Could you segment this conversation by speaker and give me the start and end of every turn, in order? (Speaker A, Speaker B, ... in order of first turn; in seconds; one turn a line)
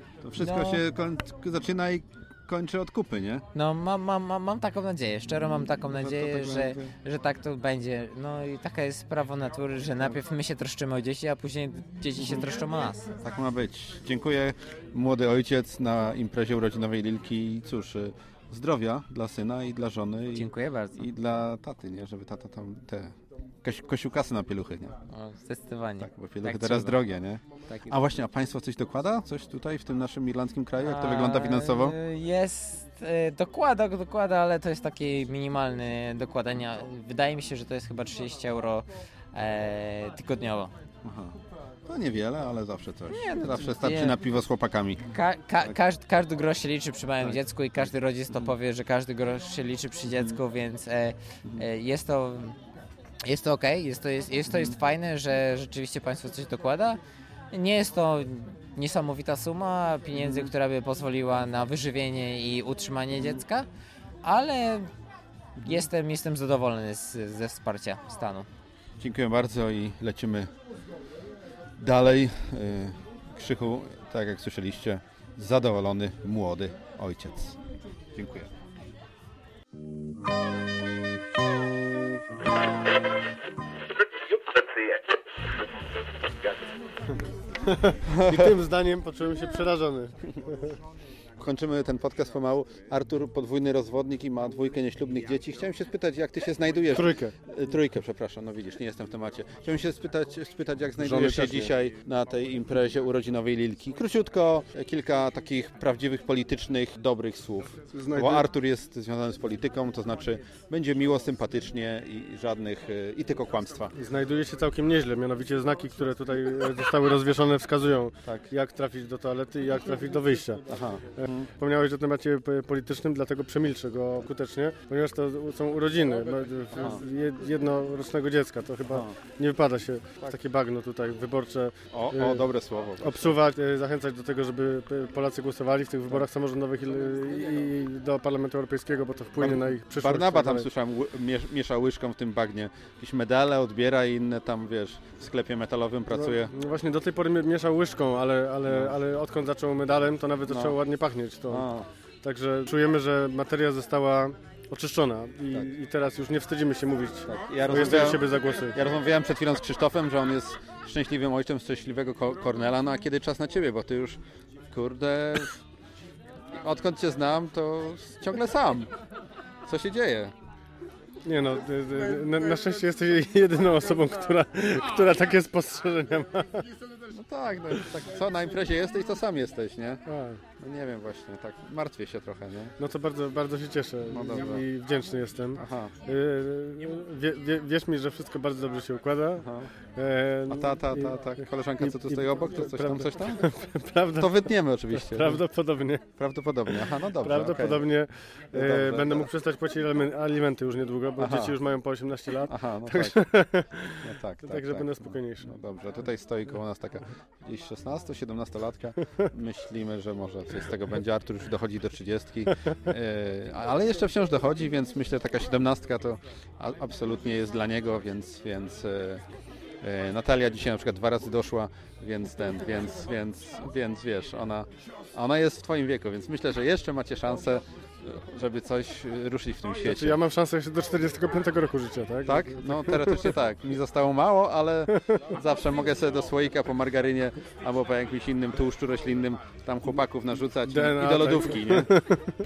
Speaker A: 0.2-3.5
Speaker B: 0.4-0.8
Speaker B: 3.5-13.1
Speaker A: 5.9-6.9
Speaker A: 12.2-12.4
Speaker A: 13.2-24.9
Speaker B: 20.3-21.1
Speaker B: 25.1-27.0
Speaker A: 26.0-31.9
Speaker B: 27.7-28.0
Speaker B: 30.8-40.7
Speaker A: 41.0-41.3
Speaker A: 41.9-45.1
Speaker B: 43.1-44.2
Speaker B: 45.1-52.5
Speaker A: 47.2-48.5
Speaker A: 50.0-50.4
Speaker B: 53.2-57.0
Speaker A: 54.5-54.8
Speaker B: 57.5-63.7
Speaker A: 60.1-60.5
Speaker B: 64.2-64.9
Speaker A: 65.6-65.8
Speaker B: 65.6-68.5
Speaker A: 69.0-70.5
Speaker A: 71.8-77.6
Speaker A: 78.1-78.5
Speaker A: 88.1-88.6
Speaker C: 88.2-90.5
Speaker A: 91.4-113.9
Speaker C: 96.9-97.3
Speaker C: 101.0-101.5
Speaker C: 107.9-108.4
Speaker C: 114.0-120.6
Speaker A: 120.7-121.5
Speaker C: 121.6-132.4
Speaker A: 126.7-127.0
Speaker A: 128.9-129.2
Speaker A: 131.9-133.4
Speaker C: 133.0-140.7
Speaker A: 139.3-146.5
Speaker C: 146.1-151.7
Speaker A: 148.7-148.9
Speaker A: 150.5-150.8
Speaker A: 151.5-151.9
Speaker C: 152.2-158.8
Speaker A: 157.2-164.2
Speaker A: 164.7-165.6
Speaker A: 166.6-168.9
Speaker A: 169.7-170.3
Speaker C: 171.2-176.7
Speaker A: 177.1-180.0
Speaker C: 180.1-180.4
Speaker A: 180.6-182.7
Speaker C: 182.8-196.0
Speaker A: 184.1-184.7
Speaker A: 185.6-185.9
Speaker A: 189.4-189.7
Speaker A: 190.5-193.4
Speaker A: 194.2-195.4
Speaker A: 196.2-197.9
Speaker C: 197.2-205.5
Speaker A: 198.5-199.3
Speaker A: 201.2-201.6
Speaker A: 202.5-203.3
Speaker A: 204.0-219.2
Speaker A: 219.8-230.2
Speaker C: 229.8-233.3
Speaker A: 232.2-241.9
Speaker C: 240.7-242.3